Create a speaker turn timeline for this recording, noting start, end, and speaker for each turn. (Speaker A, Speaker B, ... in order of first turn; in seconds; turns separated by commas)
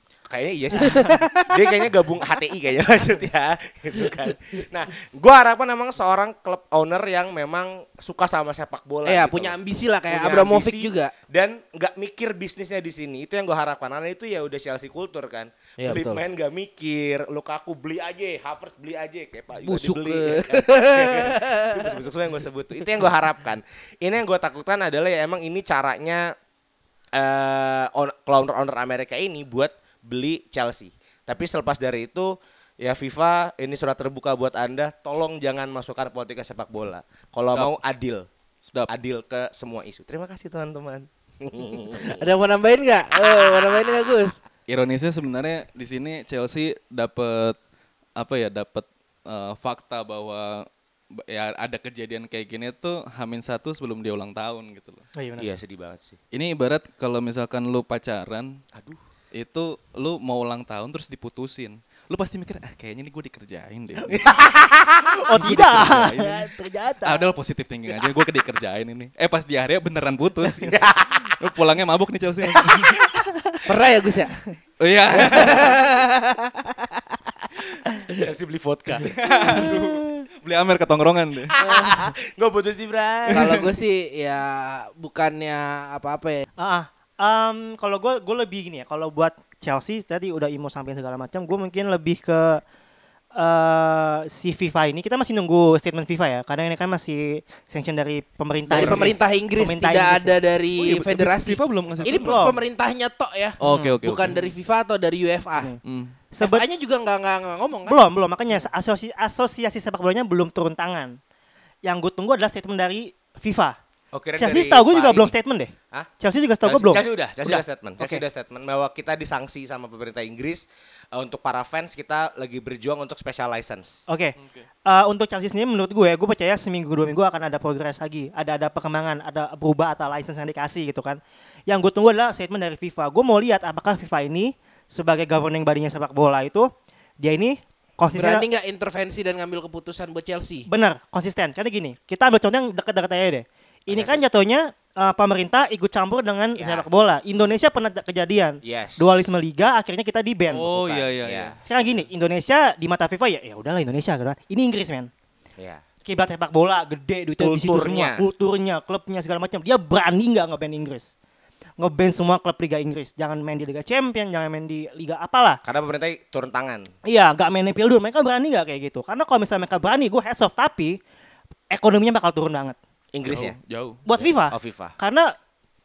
Speaker A: 0.3-9.5, Speaker B: 0.8-1.9, Speaker B: 9.0-11.1, Speaker A: 10.1-26.3, Speaker B: 15.8-16.2, Speaker B: 19.6-22.0, Speaker A: 27.1-38.3, Speaker A: 38.9-42.2, Speaker B: 41.9-44.4, Speaker C: 44.7-47.6, Speaker C: 48.2-55.0, Speaker D: 55.1-55.5, Speaker A: 55.4-56.2, Speaker C: 56.3-58.6, Speaker A: 58.7-59.0, Speaker C: 59.3-64.3, Speaker A: 64.1-65.2, Speaker D: 65.2-67.3, Speaker C: 65.4-66.5, Speaker C: 67.0-70.7, Speaker A: 70.5-71.4, Speaker C: 71.4-73.2, Speaker A: 72.6-72.9, Speaker B: 73.7-74.4, Speaker C: 74.8-75.8, Speaker B: 75.1-77.0, Speaker A: 75.2-75.4, Speaker A: 77.8-80.2, Speaker C: 79.0-81.5, Speaker A: 81.5-83.6, Speaker B: 81.6-82.1, Speaker C: 83.3-83.6, Speaker B: 83.3-86.5, Speaker D: 86.6-92.6, Speaker D: 93.3-100.3, Speaker B: 98.7-105.8, Speaker C: 98.7-99.1, Speaker C: 100.8-102.5, Speaker D: 102.0-102.5, Speaker C: 103.6-104.5, Speaker D: 103.7-104.0, Speaker C: 105.8-106.2, Speaker D: 106.3-106.6, Speaker B: 106.4-108.0, Speaker D: 107.8-111.2, Speaker D: 111.8-113.8, Speaker A: 114.1-115.3, Speaker D: 114.3-118.2, Speaker A: 116.6-124.0, Speaker D: 124.1-124.3, Speaker C: 124.4-124.7, Speaker D: 124.8-136.7, Speaker D: 137.2-138.5, Speaker B: 138.1-140.7, Speaker D: 140.7-150.7, Speaker A: 143.9-144.2, Speaker A: 146.6-146.8, Speaker A: 148.6-149.2, Speaker C: 150.5-151.6, Speaker A: 150.7-151.6, Speaker D: 151.6-155.1, Speaker D: 156.0-161.1, Speaker A: 157.4-158.2, Speaker D: 161.8-165.6, Speaker A: 165.6-166.9, Speaker D: 167.1-171.0, Speaker D: 171.7-172.8, Speaker A: 173.1-173.6, Speaker C: 173.2-174.0, Speaker D: 174.1-175.3, Speaker A: 174.2-174.9